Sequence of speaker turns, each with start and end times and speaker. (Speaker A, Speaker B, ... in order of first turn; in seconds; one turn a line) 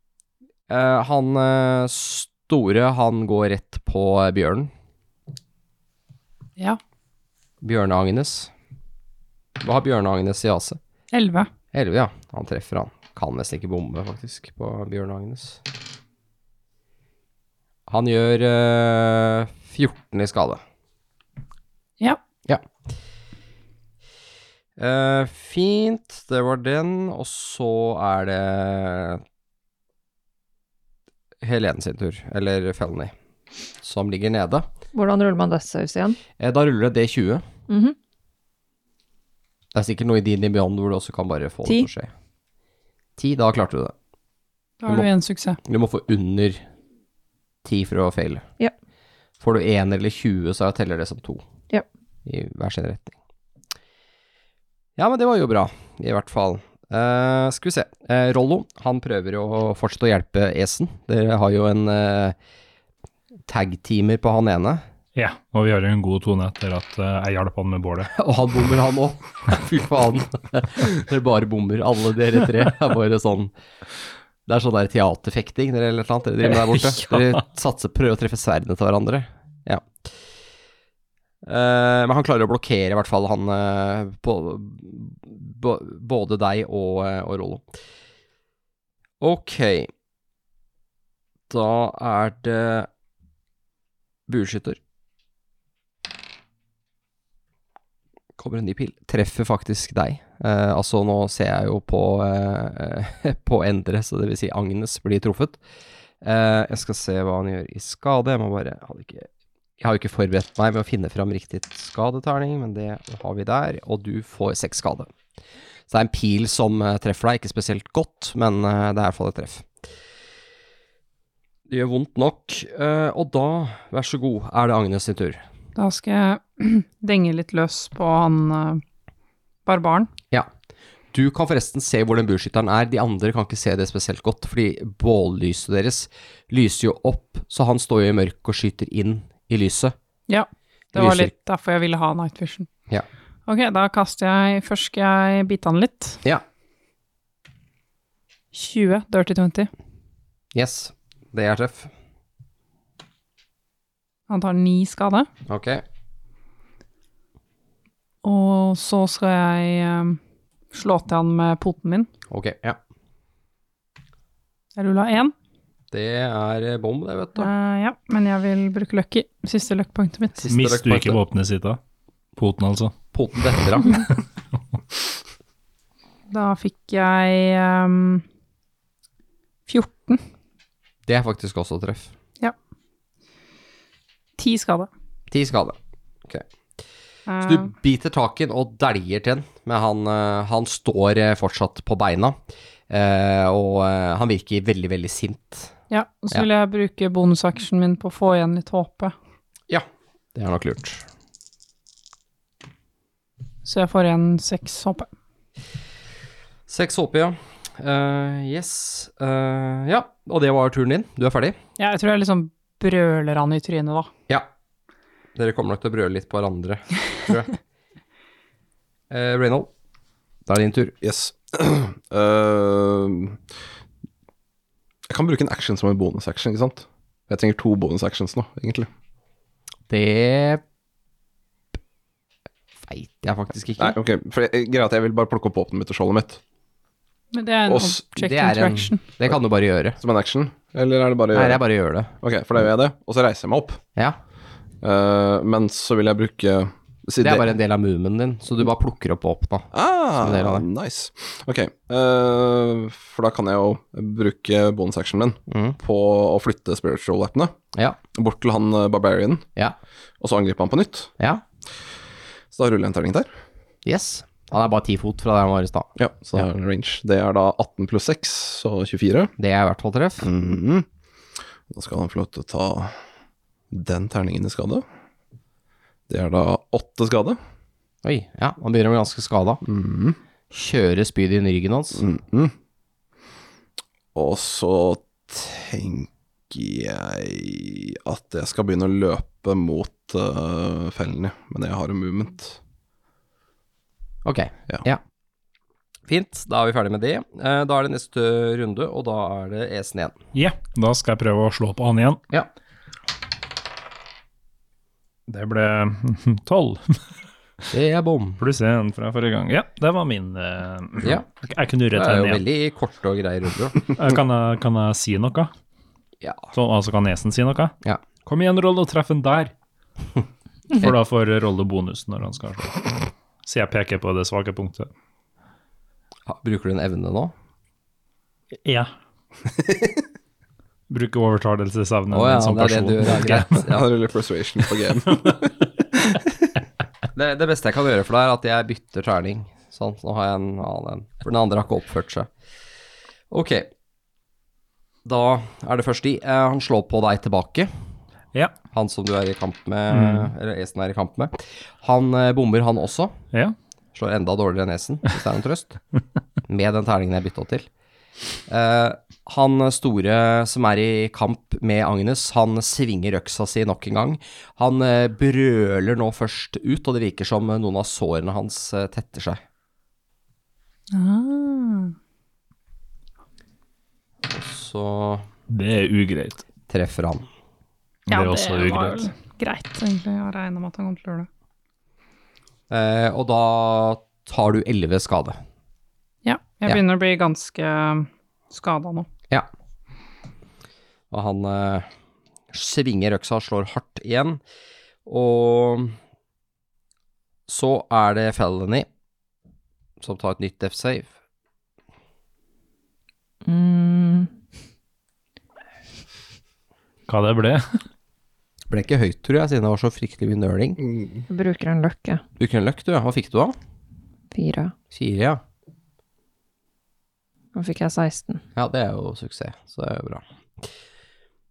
Speaker A: 0.7-4.7
Speaker A: 7.6-8.5
Speaker A: 9.6-10.8
Speaker B: 11.1-11.5
Speaker A: 11.7-15.6
Speaker A: 17.9-20.6
Speaker A: 24.8-29.2
Speaker A: 31.4-33.1
Speaker A: 33.8-34.7
Speaker C: 34.9-36.2
Speaker A: 36.4-37.4
Speaker C: 37.7-38.0
Speaker A: 39.7-42.1
Speaker A: 43.2-43.9
Speaker B: 44.8-45.6
Speaker A: 45.6-46.6
Speaker A: 47.6-48.5
Speaker A: 49.4-51.4
Speaker A: 52.3-53.2
Speaker A: 55.0-62.4
Speaker A: 63.5-64.8
Speaker D: 65.2-68.1
Speaker A: 68.1-73.5
Speaker A: 74.5-80.0
Speaker D: 76.6-77.2
Speaker A: 81.5-87.7
Speaker A: 89.2-89.9
Speaker A: 91.5-92.9
Speaker A: 94.3-94.8
Speaker A: 98.4-105.6
Speaker A: 106.2-109.3
Speaker A: 109.8-115.1
Speaker A: 115.9-119.7
Speaker A: 121.7-125.4
Speaker B: 125.8-128.8
Speaker B: 129.7-130.1
Speaker A: 131.1-139.9
Speaker B: 140.3-142.7
Speaker A: 140.9-141.3
Speaker B: 143.5-146.2
Speaker B: 148.5-149.7
Speaker A: 150.5-151.9
Speaker B: 154.3-155.3
Speaker A: 155.5-155.8
Speaker B: 158.2-160.2
Speaker B: 160.7-162.1
Speaker A: 162.3-162.8
Speaker B: 164.8-165.3
Speaker A: 165.9-167.5
Speaker B: 167.4-170.4
Speaker A: 170.4-171.2
Speaker D: 170.5-171.8
Speaker D: 172.4-173.0
Speaker A: 173.1-174.1
Speaker B: 176.3-178.2
Speaker B: 179.7-180.2
Speaker A: 181.1-182.1
Speaker B: 184.4-184.9
Speaker A: 185.3-186.4
Speaker B: 187.3-187.7
Speaker A: 187.4-192.4
Speaker A: 192.9-195.7
Speaker B: 195.9-199.1
Speaker A: 199.7-201.1
Speaker B: 203.6-205.1
Speaker A: 206.7-211.6
Speaker B: 211.8-214.1
Speaker A: 215.3-217.6
Speaker A: 219.1-219.7
Speaker A: 220.5-220.9
Speaker E: 221.0-223.4
Speaker E: 225.1-228.9
Speaker A: 229.9-230.6
Speaker A: 232.8-234.0
Speaker E: 233.8-236.4
Speaker B: 237.3-239.0
Speaker E: 237.7-238.0
Speaker A: 238.2-240.0
Speaker E: 240.0-241.6
Speaker A: 241.3-242.1
Speaker E: 242.2-243.8
Speaker E: 244.8-247.5
Speaker A: 247.2-250.7
Speaker E: 249.7-257.6
Speaker A: 255.5-255.8
Speaker E: 258.1-259.5
Speaker E: 260.2-261.1
Speaker E: 262.5-263.3
Speaker A: 263.9-265.9
Speaker E: 266.0-269.3
Speaker A: 269.4-270.3
Speaker E: 270.2-270.9
Speaker E: 271.7-273.0
Speaker E: 273.7-274.8
Speaker E: 276.1-277.4
Speaker A: 278.0-279.6
Speaker E: 279.6-280.2
Speaker A: 280.5-282.1
Speaker E: 282.0-282.5
Speaker E: 284.1-292.6
Speaker A: 294.2-295.0
Speaker A: 296.1-300.2
Speaker D: 300.3-302.2
Speaker D: 305.3-307.0
Speaker A: 307.7-308.4
Speaker D: 308.4-312.4
Speaker A: 311.9-313.9
Speaker D: 313.9-315.5
Speaker A: 316.2-316.5
Speaker D: 316.5-317.7
Speaker D: 318.2-319.5
Speaker D: 320.7-322.9
Speaker D: 323.4-324.9
Speaker A: 326.3-327.3
Speaker D: 328.6-328.9
Speaker D: 330.9-333.7
Speaker A: 332.1-333.9
Speaker E: 333.6-336.5
Speaker A: 337.1-342.3
Speaker A: 343.3-343.7
Speaker A: 345.1-347.7
Speaker A: 348.7-353.2
Speaker D: 349.9-350.3
Speaker A: 353.9-355.8
Speaker A: 356.5-357.7
Speaker A: 358.5-369.4
Speaker B: 370.9-371.9
Speaker A: 374.3-375.3
Speaker D: 375.5-376.4
Speaker A: 376.7-377.3
Speaker D: 378.1-379.1
Speaker B: 378.1-381.3
Speaker A: 382.7-385.4
Speaker B: 386.2-389.1
Speaker A: 391.1-391.9
Speaker A: 392.5-394.4
Speaker A: 395.1-396.0
Speaker A: 397.5-398.9
Speaker A: 400.0-401.1
Speaker C: 403.4-404.3
Speaker D: 407.1-407.8
Speaker A: 408.7-410.8
Speaker E: 410.8-411.2
Speaker C: 411.3-412.2
Speaker A: 412.4-413.6
Speaker C: 414.3-414.7
Speaker A: 414.9-415.4
Speaker C: 417.5-418.4
Speaker A: 418.6-420.2